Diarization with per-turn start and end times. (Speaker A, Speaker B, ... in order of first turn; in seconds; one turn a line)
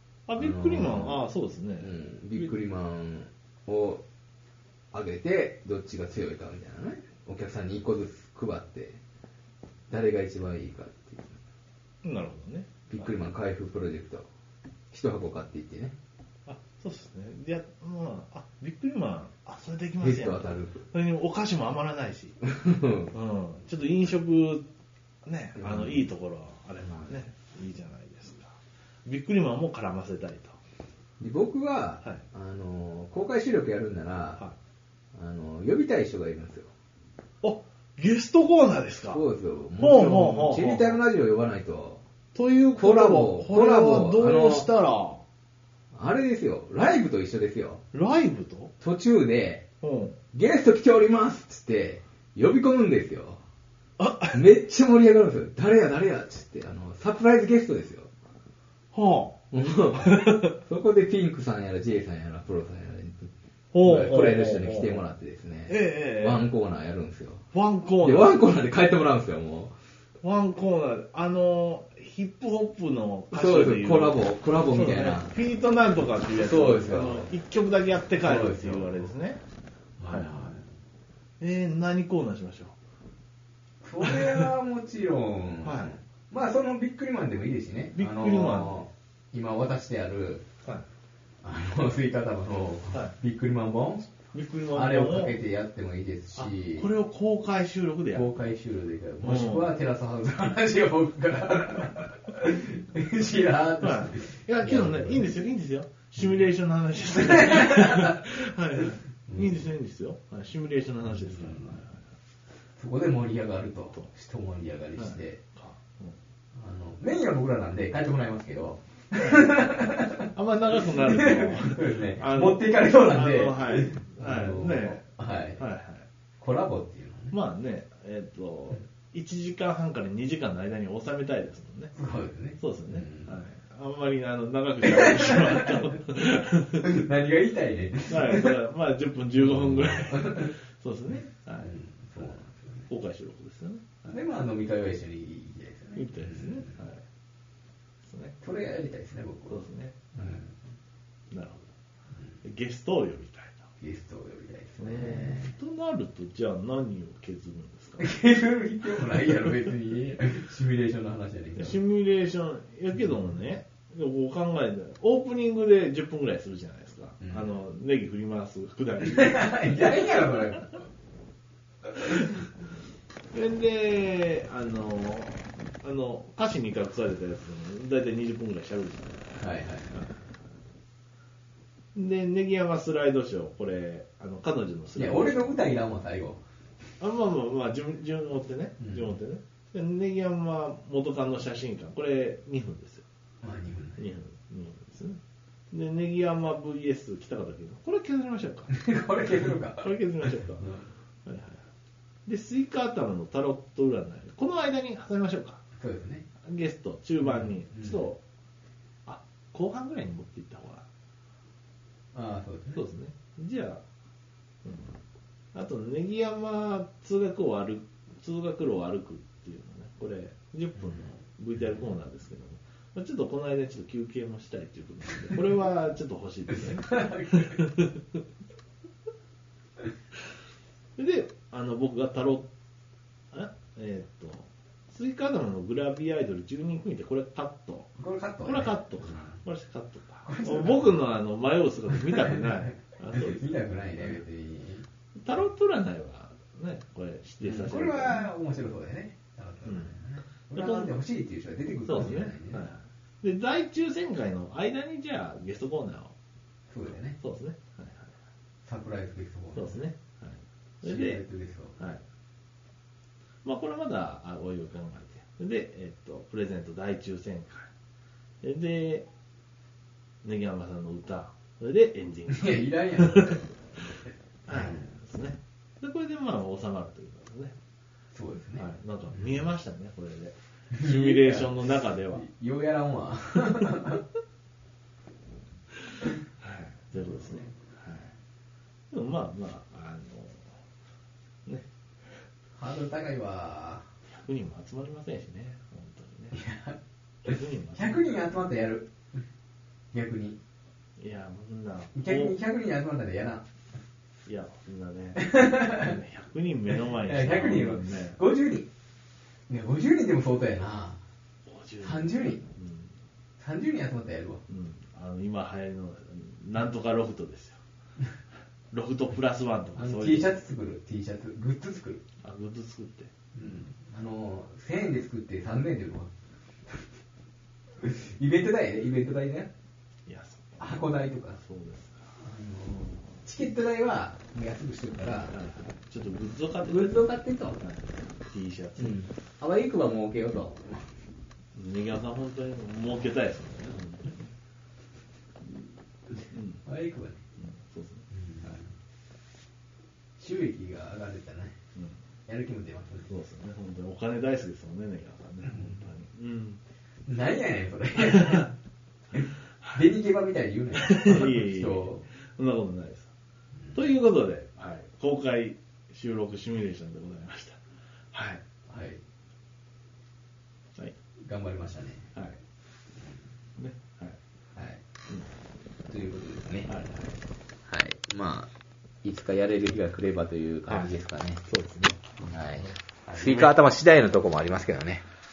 Speaker A: 0.3-2.5
Speaker B: 0.4-1.2
Speaker B: 1.8-4.0
Speaker B: 4.9-9.0
Speaker B: 9.9-11.4
Speaker A: 12.0-13.2
Speaker B: 12.9-14.3
Speaker B: 14.9-15.9
Speaker A: 16.4-22.4
Speaker B: 20.0-20.8
Speaker B: 22.4-23.1
Speaker A: 23.1-24.7
Speaker A: 25.2-30.6
Speaker B: 25.6-26.1
Speaker B: 26.9-27.1
Speaker B: 31.2-34.4
Speaker B: 35.1-36.7
Speaker A: 37.4-39.2
Speaker B: 39.1-42.0
Speaker A: 39.8-41.0
Speaker A: 42.3-45.2
Speaker B: 42.8-44.7
Speaker B: 45.9-47.8
Speaker A: 47.9-48.7
Speaker B: 48.8-49.7
Speaker A: 49.8-50.2
Speaker B: 50.3-53.4
Speaker A: 54.0-54.4
Speaker B: 54.3-58.1
Speaker A: 58.9-59.4
Speaker B: 59.5-67.5
Speaker A: 59.9-60.5
Speaker A: 63.7-65.0
Speaker A: 65.7-66.4
Speaker A: 67.5-68.4
Speaker B: 68.0-69.7
Speaker A: 70.2-79.4
Speaker B: 73.3-75.3
Speaker B: 76.3-77.3
Speaker B: 78.2-79.1
Speaker B: 80.0-80.6
Speaker A: 80.0-80.6
Speaker A: 81.4-82.8
Speaker B: 83.8-90.5
Speaker A: 84.0-84.5
Speaker A: 85.6-86.0
Speaker A: 88.0-88.8
Speaker B: 91.4-94.1
Speaker A: 94.3-95.3
Speaker B: 94.7-96.9
Speaker A: 96.3-98.3
Speaker B: 98.1-105.3
Speaker A: 99.2-99.7
Speaker A: 103.8-112.0
Speaker B: 107.1-108.2
Speaker B: 109.3-109.6
Speaker B: 111.1-111.8
Speaker B: 112.8-115.4
Speaker A: 115.0-116.2
Speaker B: 116.5-120.3
Speaker A: 119.2-119.7
Speaker A: 120.3-126.0
Speaker B: 121.0-125.6
Speaker B: 126.4-127.3
Speaker A: 127.3-131.9
Speaker B: 131.9-133.4
Speaker A: 132.6-137.1
Speaker B: 134.8-136.0
Speaker B: 136.8-138.5
Speaker A: 138.1-142.3
Speaker B: 139.4-140.5
Speaker B: 141.6-142.9
Speaker A: 142.9-144.2
Speaker B: 144.1-146.8
Speaker A: 145.9-147.0
Speaker A: 148.0-148.4
Speaker B: 148.4-150.5
Speaker A: 149.5-150.4
Speaker A: 151.3-151.7
Speaker A: 152.4-153.7
Speaker B: 153.8-155.6
Speaker A: 154.8-158.1
Speaker B: 158.0-161.8
Speaker A: 161.6-170.3
Speaker B: 167.2-167.5
Speaker B: 169.0-170.8
Speaker A: 172.0-172.3
Speaker B: 172.0-172.3
Speaker A: 173.3-180.1
Speaker B: 179.4-180.0
Speaker A: 181.9-185.5
Speaker B: 184.9-186.4
Speaker A: 187.0-193.1
Speaker B: 188.8-189.1
Speaker B: 193.4-194.0
Speaker A: 194.0-195.2
Speaker A: 195.7-198.7
Speaker B: 198.7-199.9
Speaker A: 199.3-200.7
Speaker B: 200.5-200.9
Speaker A: 201.2-201.6
Speaker A: 202.2-205.6
Speaker B: 205.8-206.2
Speaker A: 206.4-208.2
Speaker B: 207.2-208.0
Speaker A: 209.0-210.9
Speaker B: 212.1-212.8
Speaker A: 212.7-213.8
Speaker A: 214.6-215.0
Speaker A: 215.5-228.0
Speaker B: 226.8-227.6
Speaker A: 230.9-232.5
Speaker A: 233.3-244.2
Speaker B: 238.0-239.4
Speaker B: 240.2-240.9
Speaker B: 242.1-244.8
Speaker A: 245.2-248.3
Speaker B: 247.4-252.7
Speaker A: 249.7-249.9
Speaker A: 250.5-250.9
Speaker A: 251.8-256.1
Speaker B: 256.7-257.2
Speaker A: 257.2-258.1
Speaker B: 258.6-259.8
Speaker A: 259.5-261.2
Speaker B: 260.8-261.8
Speaker A: 263.4-267.7
Speaker A: 268.4-269.1
Speaker A: 270.2-273.5
Speaker B: 272.3-273.4
Speaker A: 274.5-277.6
Speaker B: 274.5-274.9
Speaker B: 278.1-278.6
Speaker A: 278.5-282.2
Speaker B: 280.7-284.0
Speaker A: 286.4-288.1
Speaker A: 288.9-290.6
Speaker B: 292.6-293.9
Speaker A: 294.1-296.4
Speaker B: 296.3-298.9
Speaker A: 297.2-298.0
Speaker B: 299.9-300.4
Speaker A: 301.0-302.4
Speaker B: 301.9-303.4
Speaker A: 304.2-308.2
Speaker B: 305.2-305.9
Speaker B: 307.0-308.7
Speaker B: 309.5-311.0
Speaker A: 311.4-312.9
Speaker B: 311.8-312.4
Speaker B: 313.4-314.4
Speaker A: 314.5-317.6
Speaker A: 318.7-320.4
Speaker B: 319.8-322.0
Speaker A: 322.2-323.1
Speaker B: 323.3-326.1
Speaker B: 327.8-329.5
Speaker A: 330.1-330.8
Speaker B: 330.6-331.4
Speaker A: 331.4-332.0
Speaker B: 332.2-335.4
Speaker A: 335.3-339.0
Speaker B: 336.6-337.6
Speaker B: 338.8-340.9
Speaker A: 341.5-344.2
Speaker A: 346.3-346.6
Speaker B: 346.6-347.2
Speaker A: 347.4-348.6
Speaker B: 348.1-348.7
Speaker B: 350.2-351.6
Speaker B: 352.3-353.1
Speaker A: 353.1-356.6
Speaker B: 355.4-355.8
Speaker B: 357.1-358.5
Speaker A: 358.0-358.4
Speaker B: 359.1-362.0
Speaker A: 360.8-363.1
Speaker A: 363.7-367.6
Speaker A: 368.1-368.4
Speaker B: 368.7-369.0
Speaker B: 371.2-372.1
Speaker A: 373.6-374.2
Speaker B: 374.6-374.8
Speaker B: 375.9-376.7
Speaker A: 376.7-377.2
Speaker B: 377.7-378.5
Speaker B: 379.0-381.4
Speaker A: 380.7-380.9
Speaker A: 381.4-383.5
Speaker B: 382.2-385.0